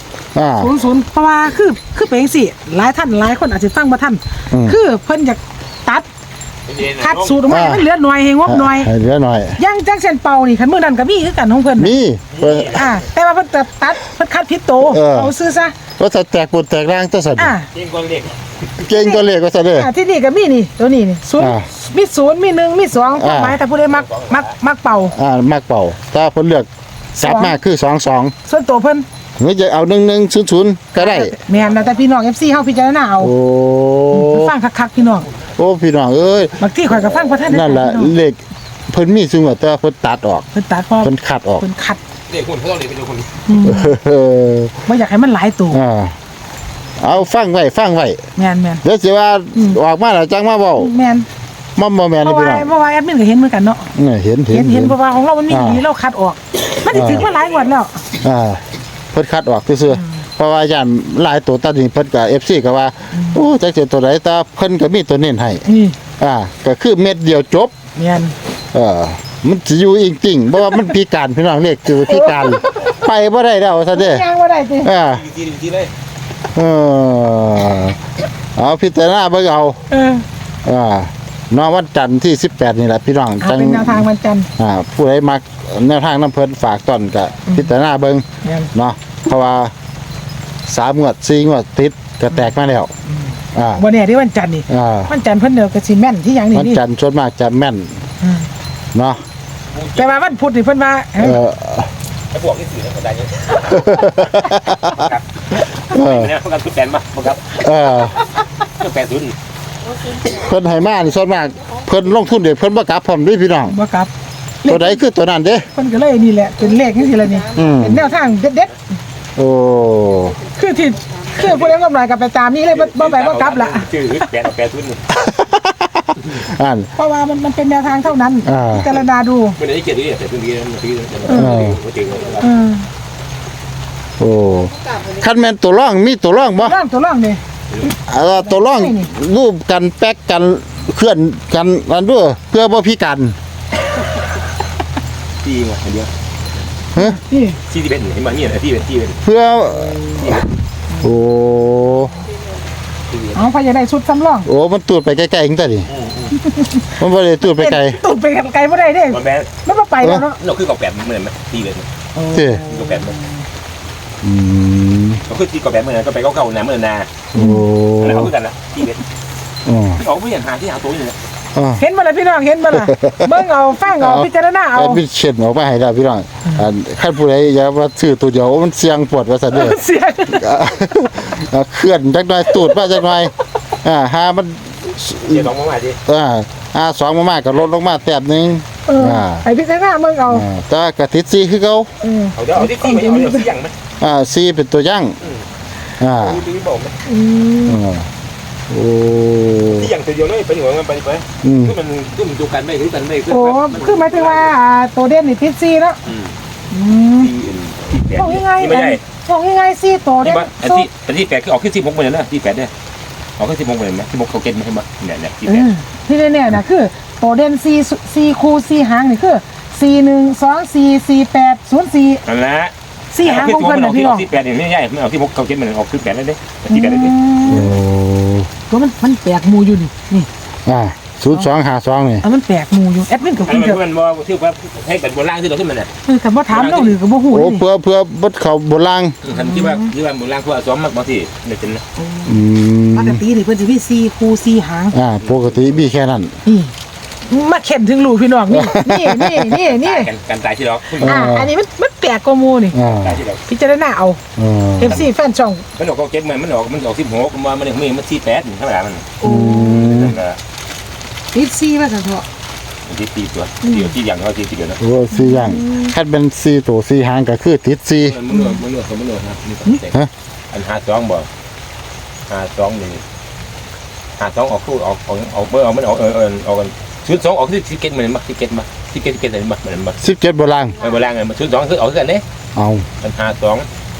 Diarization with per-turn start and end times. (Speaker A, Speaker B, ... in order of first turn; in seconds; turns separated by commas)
Speaker A: 0.3-0.8, Speaker B: 0.6-6.1, Speaker A: 4.5-4.8, Speaker C: 6.7-7.5, Speaker B: 7.0-8.9, Speaker A: 7.5-7.9, Speaker A: 8.5-9.6, Speaker B: 9.6-11.9, Speaker A: 11.8-12.9, Speaker C: 12.3-13.0, Speaker B: 12.7-15.8, Speaker A: 14.8-15.3, Speaker A: 16.0-17.5, Speaker B: 17.4-17.7, Speaker C: 17.7-18.4, Speaker A: 18.8-19.9, Speaker B: 18.9-25.1, Speaker A: 21.4-21.7, Speaker A: 23.1-23.6, Speaker C: 23.9-24.6, Speaker A: 25.1-28.3, Speaker B: 27.2-27.6, Speaker B: 28.5-29.1, Speaker A: 29.4-31.4, Speaker B: 30.9-33.3, Speaker C: 31.5-32.0, Speaker A: 33.2-34.5, Speaker B: 34.1-35.3, Speaker C: 35.0-35.4, Speaker A: 35.6-38.4, Speaker B: 36.6-38.2, Speaker A: 38.9-40.5, Speaker B: 40.5-42.0, Speaker A: 41.0-41.6, Speaker C: 42.3-43.4, Speaker B: 43.5-44.0, Speaker A: 43.6-44.8, Speaker B: 44.9-45.8, Speaker A: 45.7-46.1, Speaker A: 47.0-48.2, Speaker B: 48.4-48.8, Speaker A: 48.8-50.9, Speaker B: 49.5-49.8, Speaker B: 50.8-51.3, Speaker A: 51.8-52.7, Speaker B: 52.2-53.9, Speaker A: 53.9-55.0, Speaker B: 54.5-58.0, Speaker A: 55.5-55.8, Speaker C: 56.8-57.7, Speaker A: 56.9-57.3, Speaker A: 58.2-65.7, Speaker B: 63.2-63.4, Speaker B: 65.7-66.0, Speaker A: 66.2-67.7, Speaker B: 68.0-68.3, Speaker A: 68.7-74.2, Speaker B: 72.1-72.9, Speaker B: 73.9-74.9, Speaker A: 74.8-75.2, Speaker C: 75.1-75.9, Speaker A: 76.5-78.0, Speaker A: 78.6-79.8, Speaker B: 79.9-80.2, Speaker A: 80.7-89.7, Speaker B: 83.4-84.5, Speaker B: 88.4-88.7, Speaker A: 90.7-92.9, Speaker A: 93.5-93.8, Speaker B: 93.8-96.8, Speaker A: 94.7-95.1, Speaker A: 96.5-98.0, Speaker B: 98.2-98.5, Speaker A: 98.9-99.2, Speaker C: 99.7-100.2, Speaker B: 100.0-101.4, Speaker A: 101.2-101.9, Speaker C: 102.3-108.0, Speaker A: 103.7-105.1, Speaker A: 105.9-106.3, Speaker A: 107.6-108.2, Speaker C: 108.7-109.3, Speaker A: 110.2-113.8, Speaker B: 113.7-114.1, Speaker B: 114.6-115.0, Speaker A: 114.7-115.7, Speaker B: 115.8-118.8, Speaker A: 117.5-118.1, Speaker A: 119.4-120.4, Speaker B: 120.5-123.9, Speaker C: 121.3-121.8, Speaker C: 122.7-125.0, Speaker A: 125.1-126.9, Speaker B: 127.0-129.6, Speaker A: 128.4-128.9, Speaker C: 129.6-132.5, Speaker B: 131.3-131.7, Speaker A: 131.3-131.8, Speaker B: 132.4-132.8, Speaker A: 134.2-136.8, Speaker B: 136.6-137.4, Speaker A: 137.9-143.3, Speaker B: 138.3-139.1, Speaker C: 145.4-146.1, Speaker B: 147.0-147.6, Speaker C: 147.7-149.2, Speaker A: 149.2-150.4, Speaker C: 150.1-150.5, Speaker A: 151.0-152.1, Speaker C: 153.1-153.4, Speaker B: 153.3-154.5, Speaker A: 154.4-155.9, Speaker C: 155.9-156.4, Speaker B: 156.3-160.4, Speaker A: 157.0-158.0, Speaker C: 159.1-159.6, Speaker C: 160.3-161.9, Speaker B: 162.2-163.2, Speaker A: 162.3-162.7, Speaker C: 162.7-163.2, Speaker A: 164.2-165.2, Speaker C: 165.3-167.1, Speaker A: 167.3-168.3, Speaker B: 167.3-167.6, Speaker C: 168.0-169.0, Speaker A: 169.7-170.0, Speaker C: 170.0-171.2, Speaker A: 171.6-171.8, Speaker B: 171.8-175.0, Speaker A: 172.7-173.4, Speaker A: 174.0-185.5, Speaker B: 179.5-180.4, Speaker B: 182.5-182.8, Speaker C: 185.3-186.0, Speaker A: 186.1-189.4, Speaker B: 188.9-190.5, Speaker A: 190.3-191.9, Speaker B: 192.0-193.5, Speaker C: 192.3-193.7, Speaker A: 194.0-195.2, Speaker C: 195.2-195.5, Speaker A: 196.0-196.4, Speaker C: 196.2-197.0, Speaker B: 197.1-197.8, Speaker A: 197.7-198.1, Speaker A: 198.7-199.9, Speaker C: 199.7-204.5, Speaker A: 201.4-201.7, Speaker B: 203.3-206.0, Speaker C: 206.1-206.3, Speaker B: 206.7-207.3, Speaker C: 207.1-209.0, Speaker B: 208.1-210.9, Speaker C: 210.2-212.7, Speaker C: 213.4-215.7, Speaker B: 215.5-222.2, Speaker C: 222.2-227.2, Speaker B: 223.1-224.3, Speaker B: 226.7-227.8, Speaker A: 227.5-228.5, Speaker B: 228.7-230.3, Speaker A: 230.7-232.2, Speaker B: 232.2-233.8, Speaker C: 233.5-235.9, Speaker B: 236.1-237.7, Speaker C: 236.5-237.0, Speaker A: 237.3-239.2, Speaker C: 239.2-241.8, Speaker B: 239.3-239.9, Speaker B: 242.0-242.4, Speaker A: 242.3-243.2, Speaker B: 242.9-245.0, Speaker A: 244.9-246.3, Speaker C: 245.2-245.9, Speaker B: 246.4-246.7, Speaker B: 247.3-250.1, Speaker A: 248.5-249.6, Speaker C: 249.5-251.2, Speaker A: 251.0-251.5, Speaker B: 251.0-252.8, Speaker A: 252.7-253.2, Speaker C: 252.8-253.4, Speaker B: 253.5-254.2, Speaker A: 254.4-255.0, Speaker B: 254.8-255.6, Speaker C: 255.8-259.2, Speaker B: 259.2-260.0, Speaker A: 259.2-260.2, Speaker C: 259.7-260.4, Speaker B: 261.3-262.3, Speaker C: 262.9-264.8, Speaker B: 263.6-263.9, Speaker A: 264.8-268.2, Speaker B: 265.1-265.9, Speaker C: 268.0-270.0, Speaker B: 268.3-268.6, Speaker C: 270.5-271.3, Speaker C: 272.3-273.0, Speaker C: 274.2-280.0, Speaker A: 280.0-280.8, Speaker C: 280.8-282.2, Speaker A: 282.6-282.9, Speaker C: 283.0-283.7